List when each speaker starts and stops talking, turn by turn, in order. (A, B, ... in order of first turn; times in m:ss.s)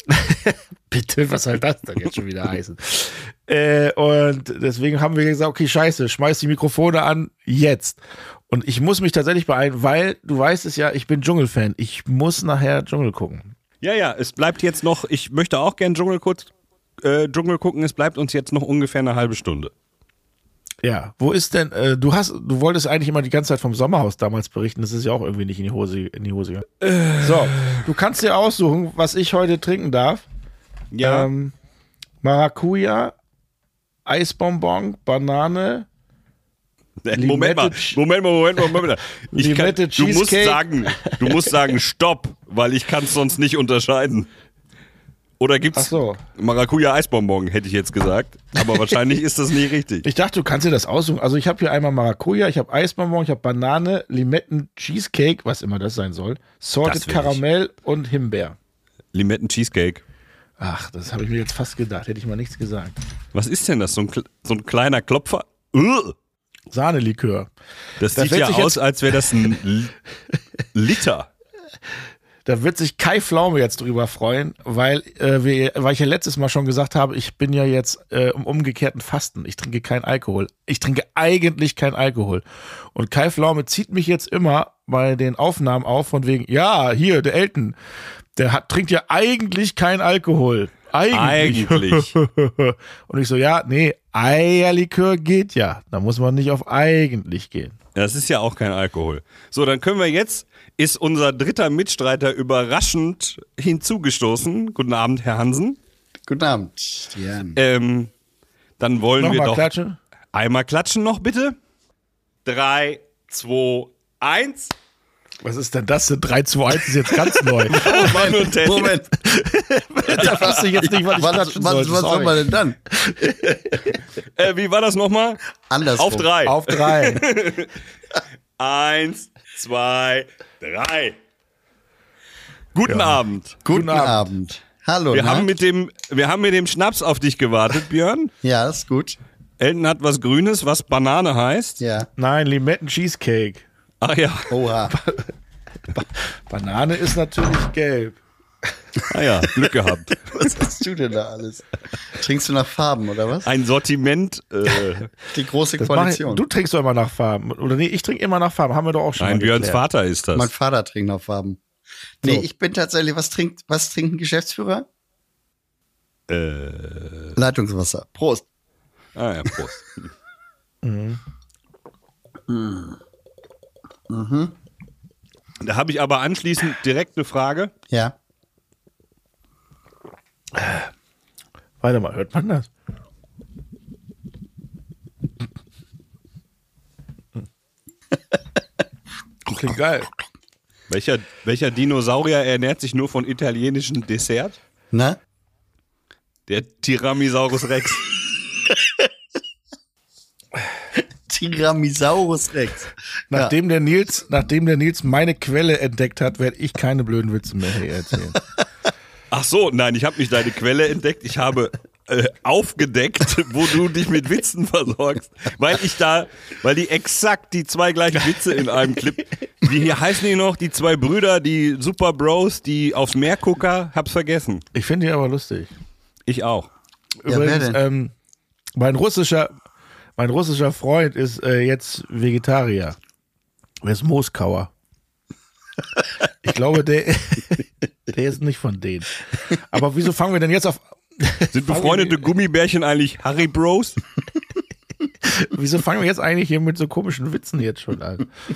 0:00.1-0:13.5 A
0:13.8-0:16.5 B
0:17.0-0:19.7 B
0:20.8-0:26.7 A
0:26.8-0:27.8 B
0:27.2-0:30.2 A
0:30.9-0:31.3 B
0:31.0-0:31.5 A
0:32.2-0:33.1 A
0:34.1-0:35.9 A
0:37.0-0:44.3 B
0:37.1-0:38.0 A
0:38.6-0:41.8 A
0:45.4-0:50.1 B
0:45.7-0:46.2 A
0:50.0-0:58.6 A
0:56.8-0:57.4 B
0:59.1-1:00.0 B
1:00.6-1:03.0 A
1:03.3-1:06.2 B
1:06.7-1:07.5 A
1:08.0-1:09.9 B
1:08.1-1:09.5 A
1:10.7-1:11.3 B
1:12.4-1:27.8 A
1:28.4-1:37.8 A
1:31.1-1:32.1 B
1:37.9-1:45.8 B
1:46.3-1:47.6 C
1:47.6-1:48.1 B
1:48.8-1:49.7 B
1:49.2-1:50.0 A
1:50.3-1:51.6 B
1:52.4-1:54.7 B
1:55.4-1:58.3 A
1:57.2-1:58.9 B
1:57.7-1:59.1 C
1:59.2-2:03.9 A
2:00.1-2:01.2 B
2:00.2-2:02.8 C
2:04.2-2:05.4 B
2:05.7-2:06.3 C
2:06.0-2:07.7 B
2:06.4-2:07.2 A
2:08.6-2:11.2 B
2:12.8-2:13.6 B
2:12.8-2:14.3 A
2:13.6-2:15.5 C
2:15.1-2:18.3 B
2:18.4-2:19.2 C
2:19.6-2:21.8 B
2:21.8-2:22.1 C
2:22.2-2:23.6 A
2:24.0-2:24.5 B
2:24.5-2:25.0 C
2:24.9-2:25.3 A
2:25.9-2:28.2 A
2:29.1-2:30.3 B
2:30.3-2:33.5 C
2:33.4-2:35.1 B
2:35.3-2:36.4 C
2:35.8-2:39.8 A
2:39.2-2:40.5 B
2:40.3-2:41.6 C
2:42.2-2:44.9 C
2:46.3-2:47.3 B
2:47.4-2:48.5 C
2:49.2-2:50.1 B
2:50.8-2:51.2 A
2:52.5-2:53.0 C
2:54.1-2:54.5 C
2:55.6-2:57.7 B
2:57.9-2:58.2 C
3:00.5-3:00.9 A
3:01.8-3:02.7 A
3:09.4-3:10.1 A
3:10.9-3:14.6 B
3:14.9-3:15.2 C
3:16.5-3:18.0 B
3:21.3-3:23.5 C
3:23.3-3:28.4 A
3:29.3-3:44.6 B
3:44.7-3:45.7 A
3:46.3-3:46.7 B
3:47.2-3:47.8 C
3:47.2-3:48.1 A
3:48.8-3:49.5 A
3:50.2-3:53.0 A
3:53.8-3:54.7 A
3:56.0-4:02.3 A
4:01.5-4:04.0 B
4:05.2-4:08.3 A